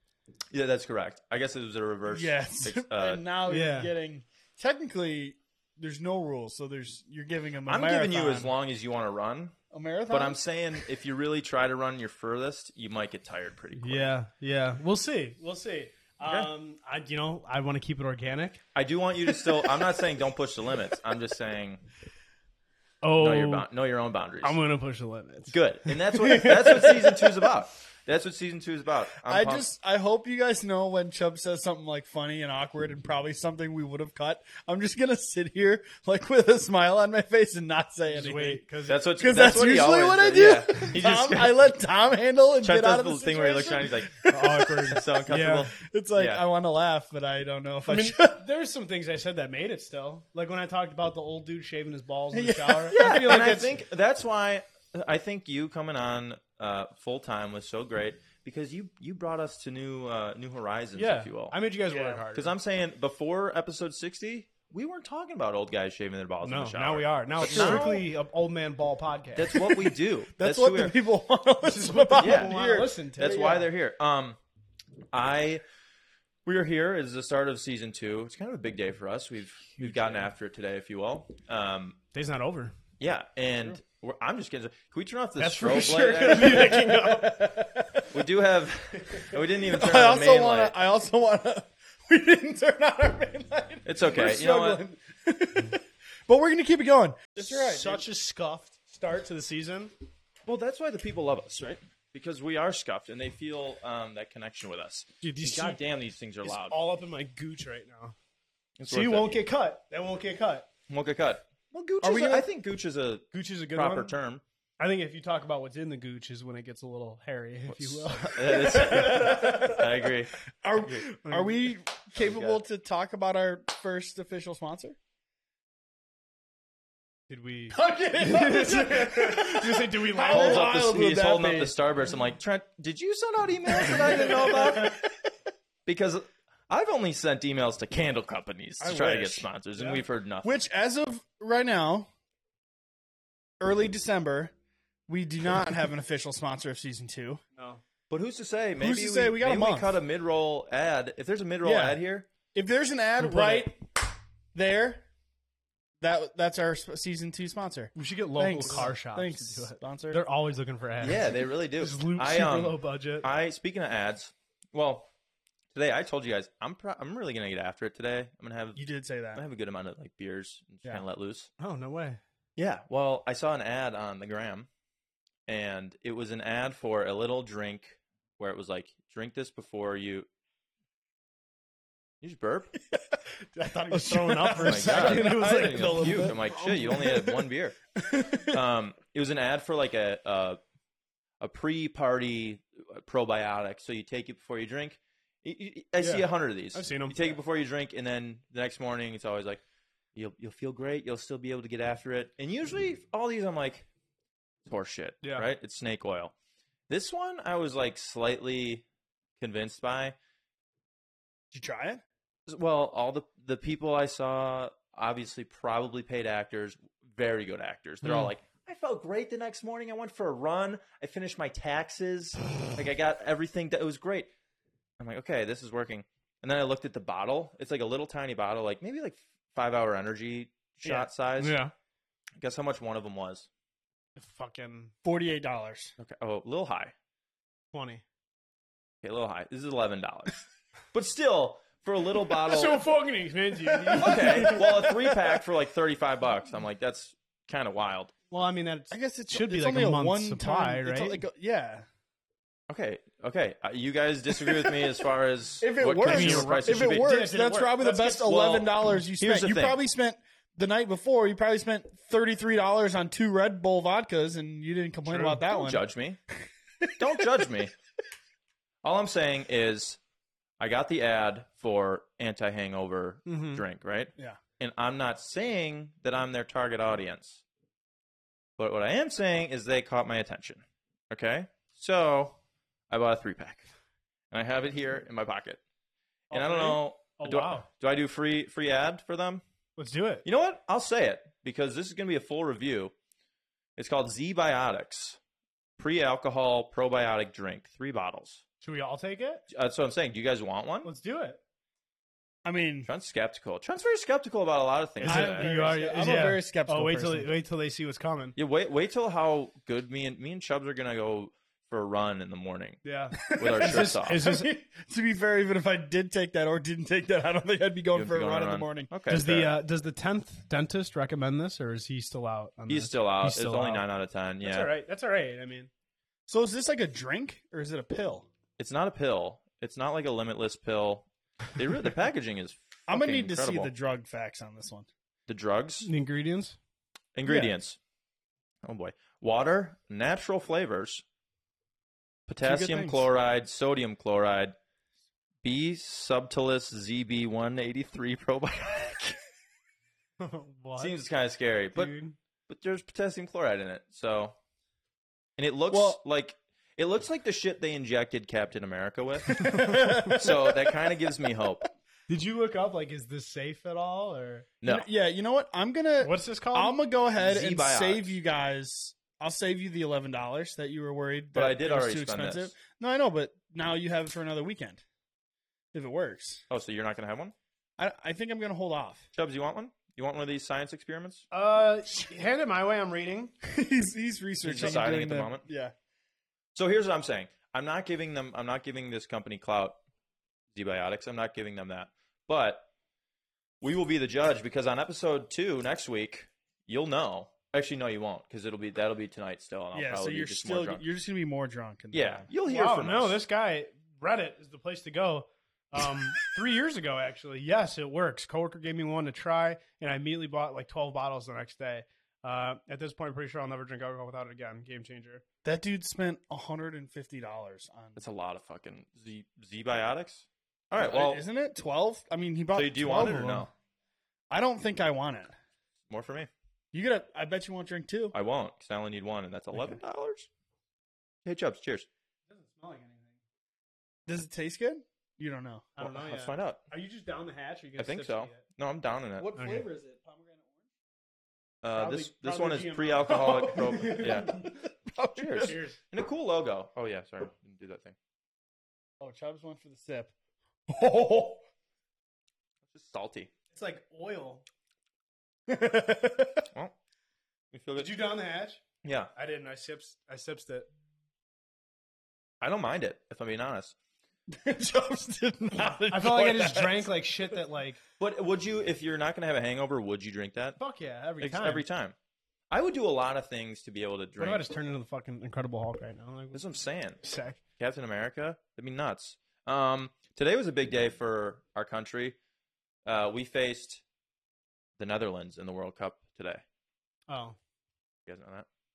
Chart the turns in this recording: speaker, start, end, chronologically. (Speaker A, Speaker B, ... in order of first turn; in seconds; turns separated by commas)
Speaker A: 0.5-3.2, Speaker B: 2.0-8.5, Speaker C: 3.5-3.9, Speaker A: 7.7-9.6, Speaker B: 9.7-10.4, Speaker A: 10.1-14.0, Speaker C: 13.8-18.6, Speaker A: 16.2-16.5, Speaker A: 18.7-21.8, Speaker C: 23.0-23.6, Speaker A: 23.2-24.6, Speaker C: 24.4-26.9, Speaker A: 25.5-29.7, Speaker B: 29.2-38.6, Speaker C: 38.1-39.0, Speaker A: 38.9-41.6, Speaker B: 39.2-44.9, Speaker A: 42.6-44.2, Speaker C: 44.3-45.7, Speaker A: 44.9-46.4, Speaker B: 45.7-48.4, Speaker C: 47.9-53.7, Speaker B: 52.3-53.6, Speaker A: 52.9-61.5, Speaker C: 60.9-62.5, Speaker B: 61.9-62.2, Speaker A: 62.3-68.1, Speaker C: 66.4-69.6, Speaker B: 67.4-67.9, Speaker A: 69.3-71.0, Speaker B: 69.5-73.6, Speaker C: 71.6-73.6, Speaker A: 72.2-74.4, Speaker A: 75.1-75.6, Speaker A: 76.5-82.0, Speaker C: 79.8-80.3, Speaker C: 82.1-82.7, Speaker A: 83.0-86.8, Speaker C: 85.4-87.4, Speaker B: 86.5-88.1, Speaker A: 88.1-90.7, Speaker B: 89.6-98.0, Speaker A: 93.8-94.8, Speaker C: 97.4-99.9, Speaker A: 100.4-106.8, Speaker C: 105.2-105.8, Speaker C: 106.4-108.1, Speaker A: 108.8-109.4, Speaker C: 108.9-110.7, Speaker A: 110.9-114.4, Speaker B: 112.0-112.5, Speaker C: 113.3-114.1, Speaker C: 114.8-119.8, Speaker A: 117.7-120.4, Speaker B: 118.9-119.8, Speaker B: 120.6-125.0, Speaker C: 121.2-121.7, Speaker A: 122.2-122.6, Speaker C: 127.3-130.7, Speaker B: 127.7-131.7, Speaker A: 130.3-135.0, Speaker B: 133.8-134.9, Speaker A: 135.8-140.5, Speaker B: 138.8-142.1, Speaker B: 143.6-144.5, Speaker B: 145.1-147.4, Speaker C: 147.6-147.8, Speaker A: 148.1-152.3, Speaker B: 148.8-150.0, Speaker B: 151.6-152.0, Speaker B: 152.5-154.0, Speaker C: 153.2-153.7, Speaker B: 154.5-155.0, Speaker B: 156.0-160.2, Speaker C: 157.9-163.3, Speaker A: 161.0-165.1, Speaker A: 165.7-168.8, Speaker B: 168.8-169.4, Speaker A: 169.3-171.5, Speaker C: 171.6-172.2, Speaker A: 172.6-174.7, Speaker A: 175.5-180.3, Speaker A: 182.2-182.7, Speaker B: 182.9-183.2, Speaker C: 183.5-187.0, Speaker B: 183.9-188.6, Speaker A: 184.6-187.8, Speaker A: 188.4-190.6, Speaker A: 191.4-199.6, Speaker C: 196.0-197.4, Speaker A: 200.1-203.9, Speaker A: 204.7-206.3, Speaker C: 205.2-205.5, Speaker A: 206.9-208.8, Speaker A: 209.4-210.1, Speaker B: 211.5-212.0, Speaker A: 212.5-224.3, Speaker C: 218.0-218.3, Speaker A: 225.0-231.6, Speaker C: 230.9-231.7, Speaker A: 232.4-233.5, Speaker C: 234.2-234.9, Speaker B: 235.0-235.9, Speaker A: 236.0-236.9, Speaker C: 237.7-238.0, Speaker A: 239.0-242.8, Speaker C: 242.4-244.7, Speaker B: 243.8-244.2, Speaker A: 244.0-248.1, Speaker C: 248.3-251.2, Speaker B: 248.9-251.8, Speaker A: 252.7-257.1, Speaker B: 255.6-265.8, Speaker C: 256.1-258.3, Speaker A: 258.2-259.8, Speaker C: 265.1-265.4, Speaker A: 265.3-266.2, Speaker A: 267.0-267.7, Speaker A: 268.8-270.0, Speaker A: 270.6-277.4, Speaker C: 273.2-273.6, Speaker A: 278.6-282.3, Speaker A: 282.9-283.7, Speaker A: 284.3-285.6, Speaker C: 286.3-287.7, Speaker A: 286.3-289.4, Speaker C: 289.8-290.2, Speaker A: 290.2-292.9, Speaker A: 293.8-295.2, Speaker A: 295.8-298.4, Speaker C: 298.6-299.4, Speaker A: 299.5-300.9, Speaker C: 300.8-301.4, Speaker B: 302.4-302.9, Speaker A: 302.9-305.5, Speaker C: 305.0-308.4, Speaker B: 305.0-307.3, Speaker A: 308.4-312.8, Speaker C: 312.8-314.5, Speaker B: 313.2-318.9, Speaker A: 313.3-314.3, Speaker A: 317.9-319.6, Speaker C: 319.1-323.8, Speaker A: 322.7-324.7, Speaker C: 324.4-325.7, Speaker B: 326.3-328.3, Speaker A: 328.6-333.7, Speaker B: 332.9-334.9, Speaker A: 335.3-335.9, Speaker C: 335.8-336.6, Speaker A: 337.1-337.8, Speaker B: 337.2-337.5, Speaker A: 338.6-341.0, Speaker A: 342.3-344.5, Speaker B: 342.4-343.1, Speaker A: 345.4-349.2, Speaker C: 350.2-351.0, Speaker A: 350.8-351.9, Speaker C: 351.7-352.1, Speaker A: 352.5-354.3, Speaker A: 355.4-361.7, Speaker B: 355.7-356.0, Speaker C: 359.3-360.2, Speaker B: 359.4-360.9, Speaker C: 362.1-364.5, Speaker A: 364.6-364.9, Speaker B: 364.6-374.8, Speaker C: 366.0-366.8, Speaker A: 367.2-368.1, Speaker A: 371.3-372.5, Speaker B: 375.7-376.4, Speaker A: 376.5-377.3, Speaker B: 377.8-379.1, Speaker A: 379.1-381.2, Speaker C: 381.3-383.3, Speaker B: 383.4-385.7, Speaker A: 384.4-385.4, Speaker C: 384.6-384.9, Speaker A: 386.5-389.8, Speaker A: 390.5-392.7, Speaker A: 393.6-400.8, Speaker B: 399.7-402.3, Speaker A: 401.9-403.2, Speaker C: 402.4-415.2, Speaker B: 415.4-418.0, Speaker A: 418.0-421.2, Speaker B: 420.8-423.5, Speaker A: 422.5-423.5, Speaker B: 424.3-425.3, Speaker A: 425.9-426.3, Speaker B: 426.7-428.1, Speaker A: 428.1-430.3, Speaker A: 431.2-431.9, Speaker C: 432.3-433.2, Speaker B: 434.1-435.7, Speaker C: 435.8-438.4, Speaker A: 435.8-436.6, Speaker A: 437.8-439.3, Speaker B: 439.2-440.6, Speaker C: 439.4-439.6, Speaker A: 441.6-444.4, Speaker C: 441.7-444.6, Speaker B: 443.5-445.6, Speaker A: 445.1-447.9, Speaker C: 445.4-445.8, Speaker B: 449.0-450.1, Speaker B: 450.7-451.4, Speaker A: 452.7-453.3, Speaker C: 453.5-454.4, Speaker B: 455.5-456.4, Speaker A: 457.5-458.0, Speaker C: 457.8-458.6, Speaker A: 458.8-459.1, Speaker C: 459.1-460.7, Speaker A: 462.4-463.7, Speaker B: 464.3-466.9, Speaker C: 465.9-467.8, Speaker A: 468.0-470.6, Speaker C: 470.6-471.6, Speaker A: 471.2-471.9, Speaker A: 472.5-474.4, Speaker C: 474.2-476.4, Speaker A: 476.3-477.0, Speaker C: 477.0-477.4, Speaker A: 477.6-482.1, Speaker A: 482.8-483.8, Speaker A: 484.8-486.4, Speaker C: 487.1-487.4, Speaker A: 488.1-488.4